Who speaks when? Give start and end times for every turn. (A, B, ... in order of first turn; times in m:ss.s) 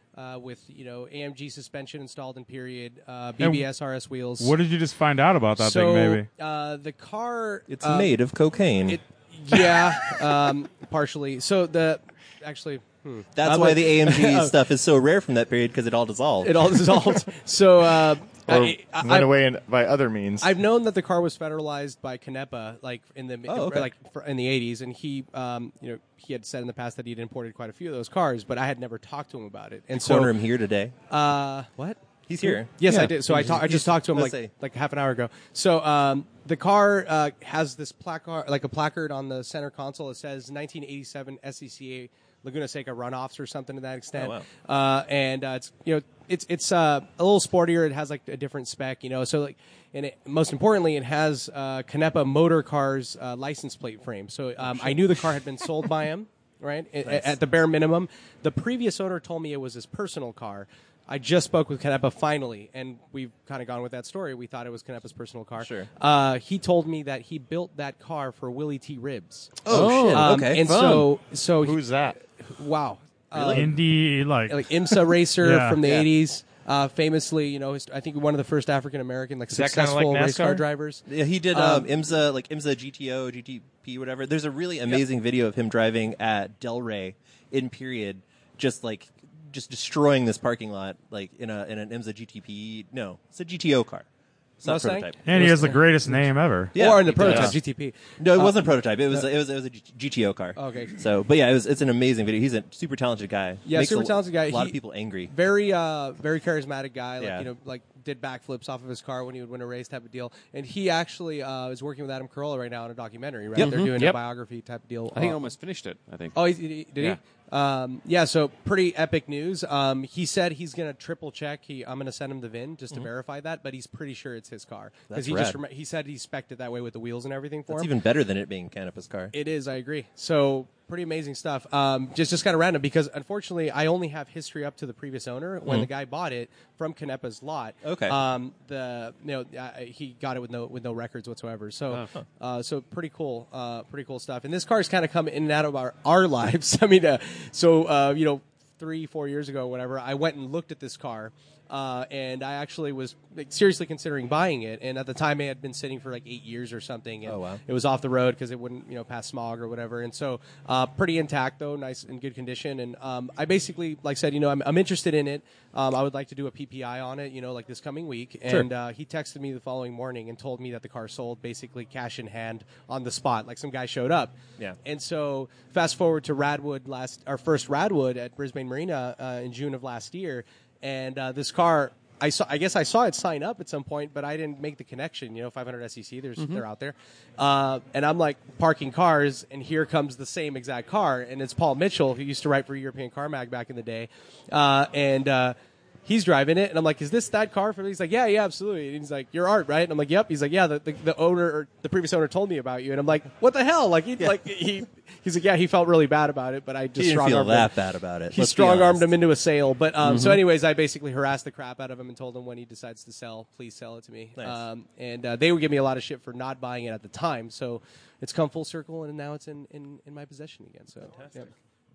0:00.2-0:04.6 A
0:03.4-0:03.7 B
0:04.4-0:06.3 B
0:05.6-0:08.1 A
0:07.7-0:09.0 C
0:08.9-0:14.6 A
0:13.4-0:16.8 C
0:16.4-0:19.3 A
0:18.5-0:20.5 D
0:20.4-0:30.3 A
0:23.5-0:23.9 C
0:29.9-0:30.9 C
0:31.1-1:13.7 A
0:32.3-0:34.5 C
0:44.2-0:44.5 C
0:57.0-0:57.4 C
1:05.6-1:05.9 C
1:09.6-1:10.7 C
1:09.7-1:11.1 E
1:11.6-1:12.2 D
1:13.3-1:13.7 C
1:13.5-1:14.7 B
1:14.5-1:21.9 A
1:15.4-1:15.8 B
1:19.5-1:20.6 D
1:21.1-1:34.1 C
1:34.6-1:35.7 C
1:34.6-1:36.2 A
1:35.2-1:37.5 B
1:36.8-1:37.6 C
1:36.8-1:39.3 A
1:38.2-1:45.3 C
1:40.6-1:41.0 A
1:43.6-1:44.8 A
1:45.3-1:55.4 A
1:47.2-1:47.5 C
1:53.6-1:54.2 E
1:55.1-1:57.2 E
1:56.3-2:07.9 A
2:05.1-2:05.6 C
2:07.7-2:09.3 C
2:09.3-3:27.7 A
2:17.8-2:18.2 C
2:37.3-2:37.6 C
3:06.4-3:06.6 E
3:27.0-3:29.1 C
3:28.3-3:41.5 A
3:30.0-3:30.4 E